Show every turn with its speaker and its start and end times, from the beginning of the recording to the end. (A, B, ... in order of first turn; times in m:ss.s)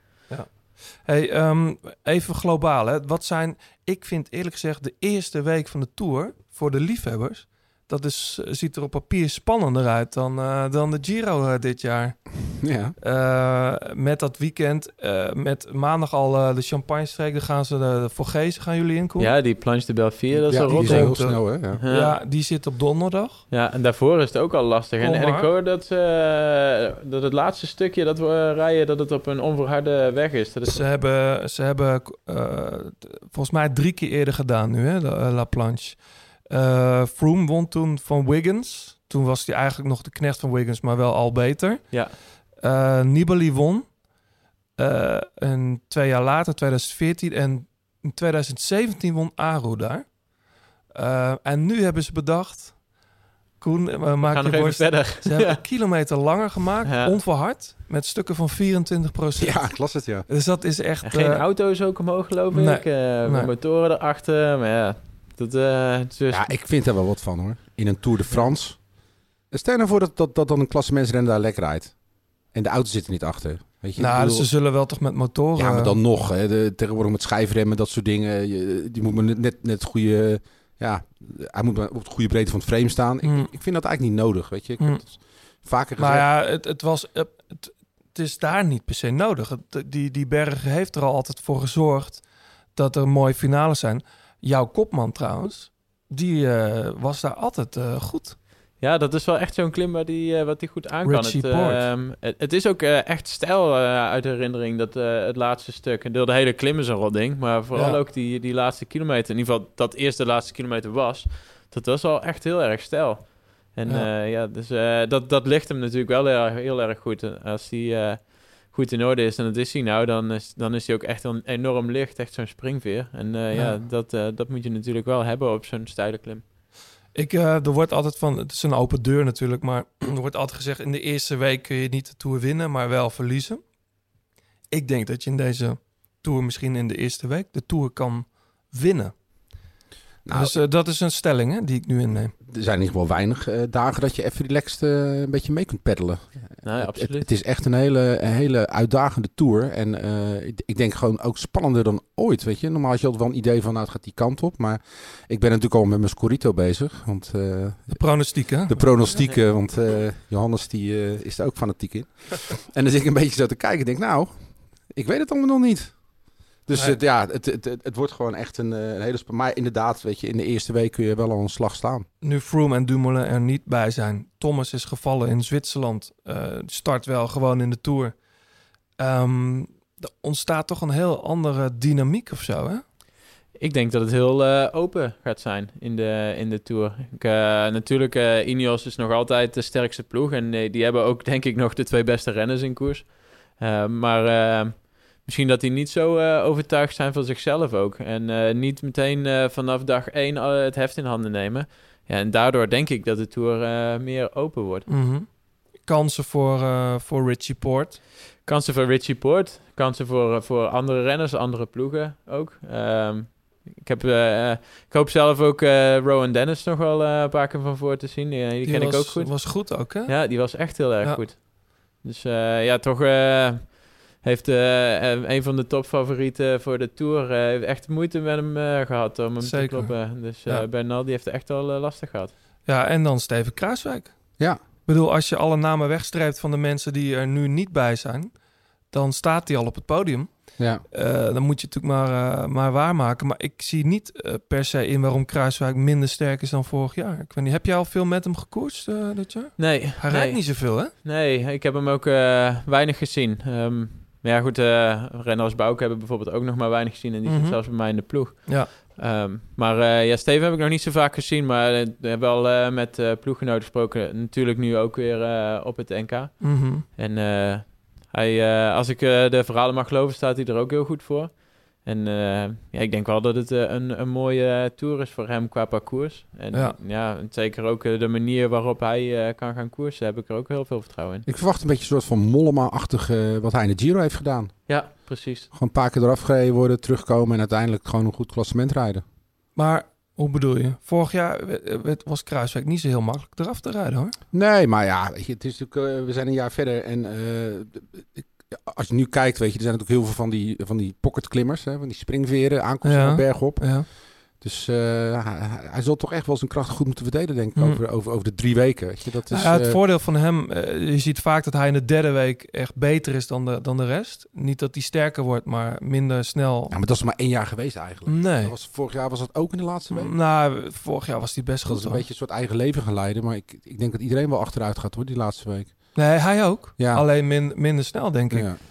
0:00.3-0:19.3 A
0:12.6-0:13.0 B
0:19.2-0:22.2 C
0:20.3-0:21.8 B
0:20.7-0:23.4 A
0:23.5-0:30.8 C
0:25.0-0:25.5 A
0:30.7-0:44.1 A
0:41.9-0:42.2 C
0:44.8-0:50.3 A
0:51.0-0:53.0 A
0:53.6-1:01.4 A
0:54.2-0:55.6 C
0:56.8-0:57.2 C
0:59.4-1:00.3 B
1:01.0-1:06.6 C
1:02.5-1:03.5 A
1:06.3-1:08.9 B
1:09.5-1:14.5 B
1:14.0-1:16.0 A
1:15.6-1:26.3 B
1:23.2-1:23.5 A
1:26.0-1:38.4 A
1:38.8-2:06.4 C
1:41.0-1:41.9 A
1:47.7-1:48.0 A
2:03.5-2:03.8 A
2:07.1-2:13.6 A
2:14.7-2:19.2 A
2:20.2-2:20.6 B
2:20.3-2:22.4 A
2:22.4-2:52.1 B
2:26.6-2:27.3 C
2:37.9-2:39.1 A
2:52.2-2:58.2 A
2:59.0-3:02.8 A
3:03.6-3:24.9 C
3:24.9-3:28.0 A
3:28.4-3:52.3 C
3:38.6-3:41.2 A
3:49.4-3:50.7 A
3:52.7-3:58.4 A
3:58.9-4:10.9 A
4:00.6-4:00.8 B
4:09.6-4:41.2 C
4:17.3-4:17.9 A
4:26.4-4:26.8 A
4:41.3-4:44.9 B
4:44.7-4:45.5 C
4:45.5-4:49.0 B
4:49.6-4:54.2 A
4:54.3-5:09.8 B
5:02.8-5:03.9 A
5:07.6-5:07.8 A
5:09.3-5:16.8 A
5:16.7-5:20.2 B
5:18.1-5:18.6 A
5:19.9-5:22.0 A
5:21.7-5:27.1 B
5:26.0-5:28.5 A
5:28.3-5:28.6 B